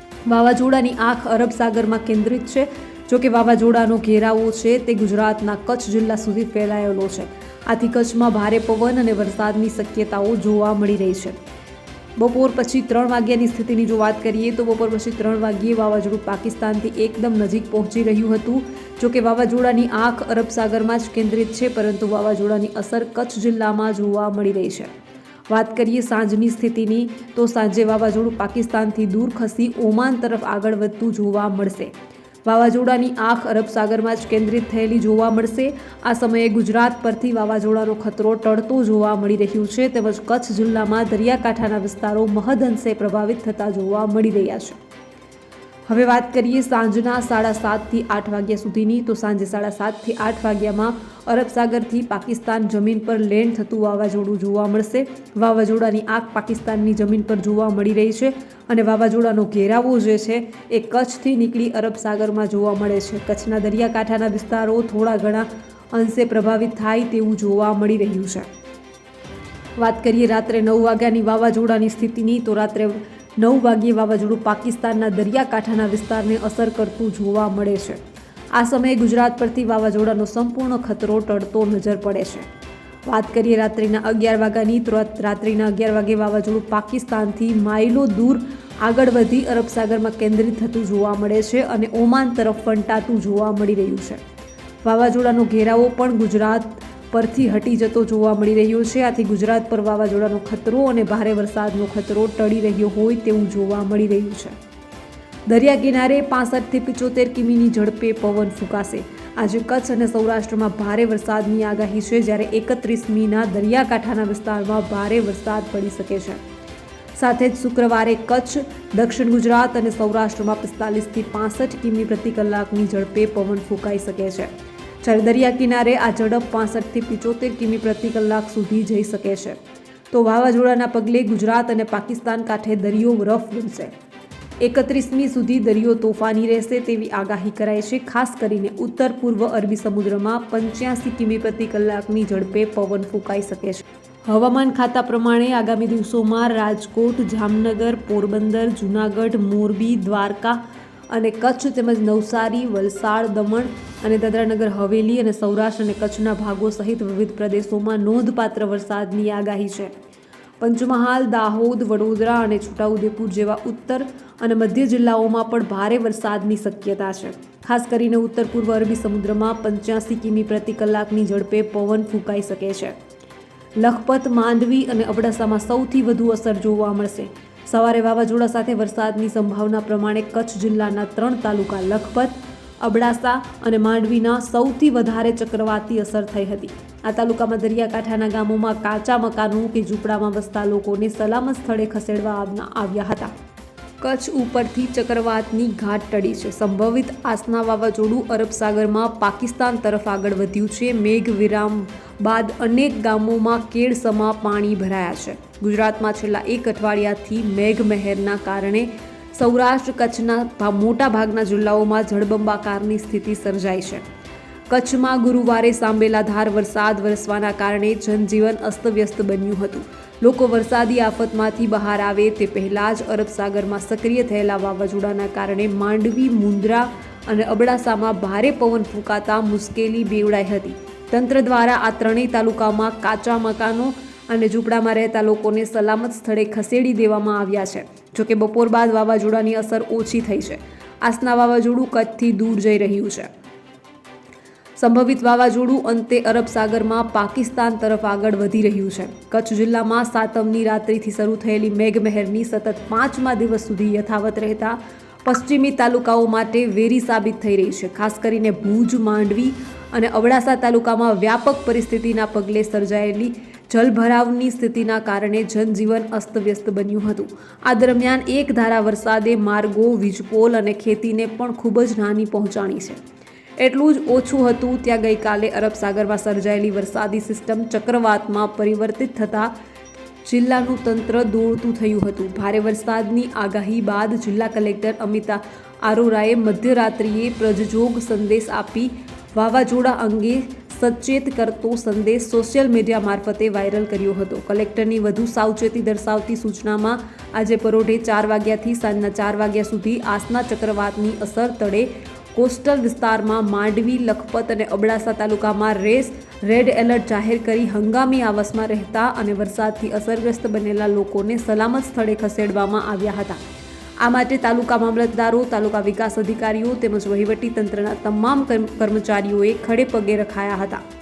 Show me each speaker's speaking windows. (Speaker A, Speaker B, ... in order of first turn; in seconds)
Speaker A: 0.3-11.4, 12.2-24.9, 25.5-31.9, 32.5-44.8, 45.9-68.5, 69.8-78.0, 78.5-82.5, 83.1-94.2, 94.8-104.6, 105.5-116.4, 117.2-124.5, 125.0-129.6, 130.1-133.9, 134.6-150.6, 151.1-159.9, 160.6-172.9, 173.8-193.3, 194.0-214.1, 214.7-243.3, 244.8-273.0, 273.6-279.5, 280.2-313.4, 314.0-320.8